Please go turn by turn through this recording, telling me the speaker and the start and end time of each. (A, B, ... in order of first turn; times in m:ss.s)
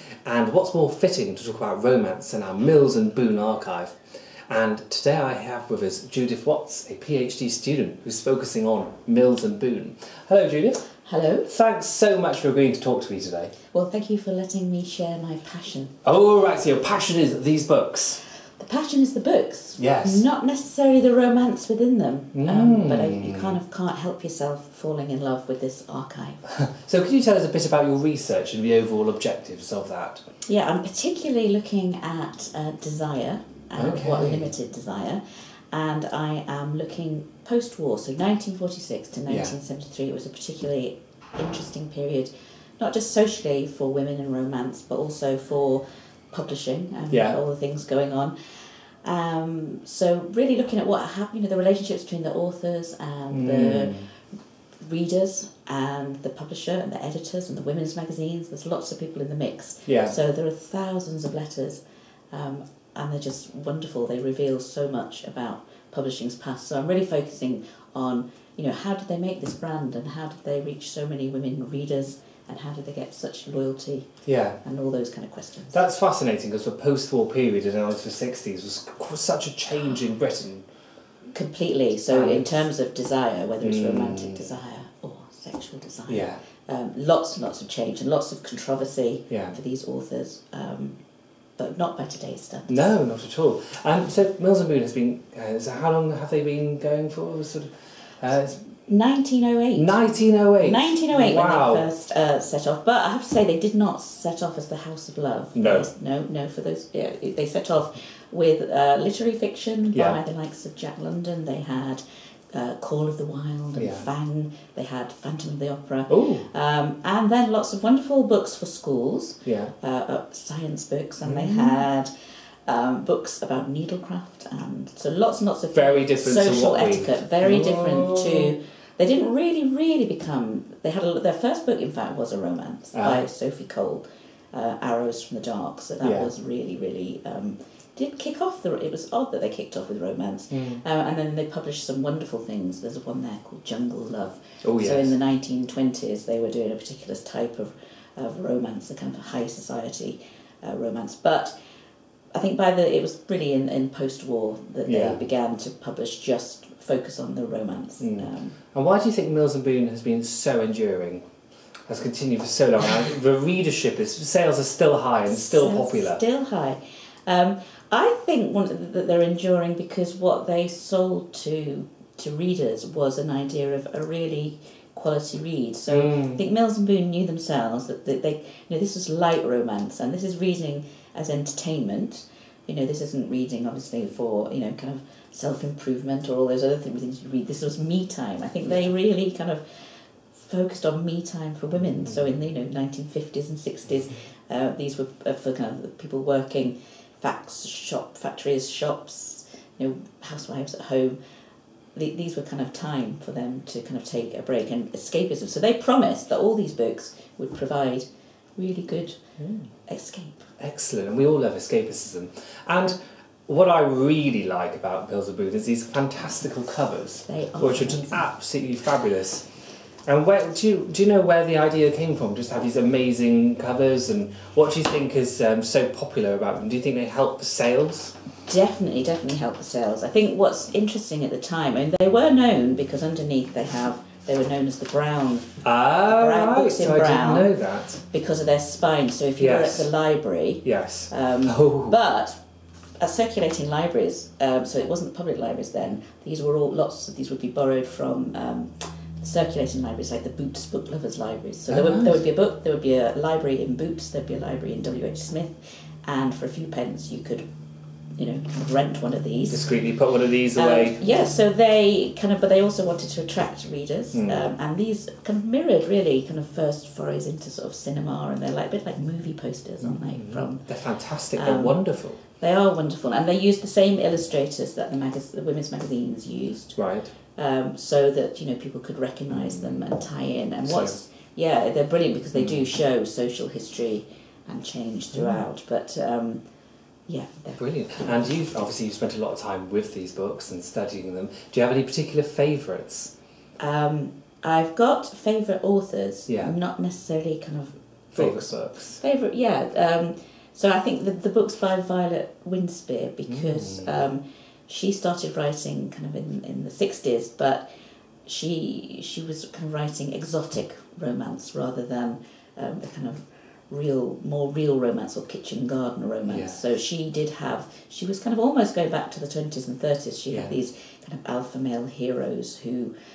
0:00.2-0:04.0 A
0:04.5-0:10.9 A
0:11.1-0:11.5 B
0:11.4-0:13.5 A
0:13.7-0:16.0 B
0:16.0-0:18.2 A
0:18.6-0:26.4 B
0:19.8-0:20.2 A
0:22.4-0:23.6 A
0:26.5-0:30.2 A
0:30.5-0:35.2 B
0:33.8-0:34.5 A
0:35.7-0:48.4 B
0:39.3-0:39.5 A
0:47.1-0:47.4 A
0:49.0-0:54.1 B
0:53.3-0:54.1 A
0:54.8-1:14.1 B
0:59.9-1:00.2 A
1:14.3-1:14.6 A
1:14.6-1:15.8 B
1:15.7-1:20.7 A
1:21.3-1:31.0 B
1:22.1-1:22.6 A
1:23.6-1:24.4 A
1:26.1-1:26.4 A
1:29.3-1:29.6 A
1:31.6-1:32.9 B
1:32.7-1:38.6 A
1:38.9-1:40.0 B
1:39.8-1:41.9 A
1:40.6-2:02.1 B
1:45.6-1:45.9 A
1:53.8-1:54.1 A
1:56.1-1:56.5 A
1:59.4-1:59.7 A
2:01.2-2:01.8 A
2:02.7-2:31.5 B
2:05.7-2:08.5 A
2:12.9-2:13.2 A
2:16.0-2:16.3 A
2:20.5-2:20.8 A
2:24.6-2:25.1 A
2:32.3-2:38.6 B
2:34.9-2:35.2 A
2:38.0-2:41.2 A
2:41.9-2:46.2 A
2:45.3-3:21.2 B
2:55.9-2:56.4 A
3:22.0-3:28.1 B
3:28.6-3:29.2 B
3:29.4-3:29.7 A
3:29.9-3:30.5 B
3:30.6-3:39.5 A
3:37.3-3:38.3 B
3:40.1-3:48.2 A
3:48.5-3:55.5 B
3:55.6-3:58.0 A
3:56.0-3:57.6 B
3:58.1-4:02.4 B
3:59.4-3:59.9 A
4:00.6-4:02.0 A
4:03.0-4:17.5 B
4:11.7-4:12.2 A
4:18.2-4:19.7 B
4:19.5-4:21.0 A
4:20.5-4:30.7 B
4:24.1-4:24.4 A
4:29.8-4:32.2 A
4:31.3-4:46.4 B
4:36.8-4:37.1 A
4:39.3-4:39.8 A
4:40.6-4:41.0 A
4:42.4-4:42.6 A
4:45.1-4:45.4 A
4:47.1-4:48.4 B
4:47.6-4:53.1 A
4:53.6-5:07.7 B
4:56.3-4:56.5 A
4:58.1-4:59.0 A
5:03.3-5:04.0 A
5:08.2-5:22.9 B
5:16.3-5:16.6 A